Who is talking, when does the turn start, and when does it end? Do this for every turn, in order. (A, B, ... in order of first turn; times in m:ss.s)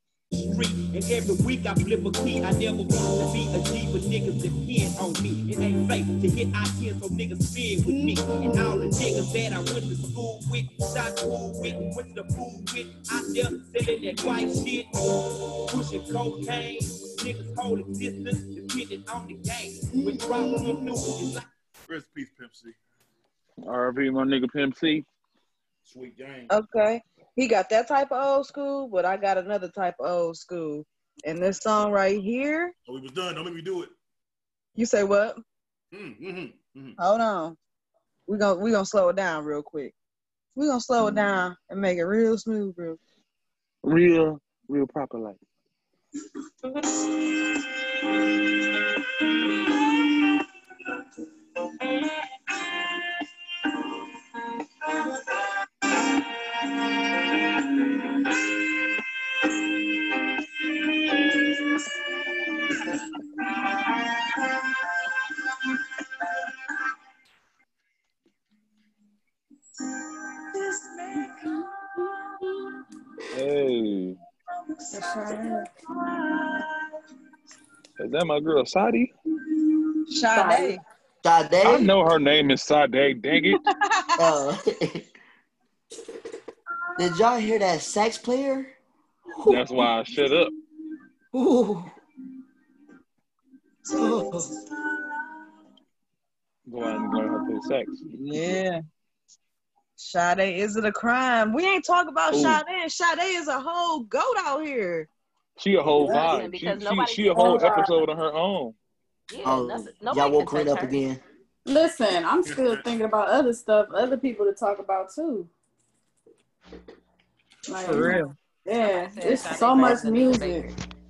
0:00.5-0:14.9 A
0:15.7-0:21.5 A
0:21.9-0:22.8 B
0:23.6-0:25.0 C
0:25.8-0:26.5 B
0:26.5-0:32.7 D
0:32.9-0:33.9 B
0:34.8-0:35.4 D
0:35.9-0:37.0 B
0:37.0-0:37.6 D
0:38.3-0:39.9 D
0:40.6-0:43.0 D
0:43.8-0:45.4 C
1:13.3-1:14.2 C
1:14.9-1:15.7 E
1:18.0-1:19.1 C
1:20.1-1:20.8 D
1:20.3-1:20.8 E
1:21.2-1:21.9 F
1:21.6-1:23.6 C
1:24.2-1:25.0 F
1:27.0-1:28.7 F
1:29.4-1:30.5 C
1:31.3-1:31.9 F
1:33.9-1:34.5 F
1:36.6-1:38.0 C
1:38.1-1:38.8 D
1:40.0-1:45.1 D
1:42.3-1:42.6 C
1:45.6-1:48.7 C
1:46.0-1:46.3 E
1:46.0-1:47.9 G
1:47.3-1:48.0 E
1:49.3-1:51.0 G
1:49.4-1:51.2 F
1:51.6-1:55.5 E
1:52.4-1:52.8 B
1:57.7-2:00.7 E
1:57.8-1:58.3 D
1:58.8-2:00.7 G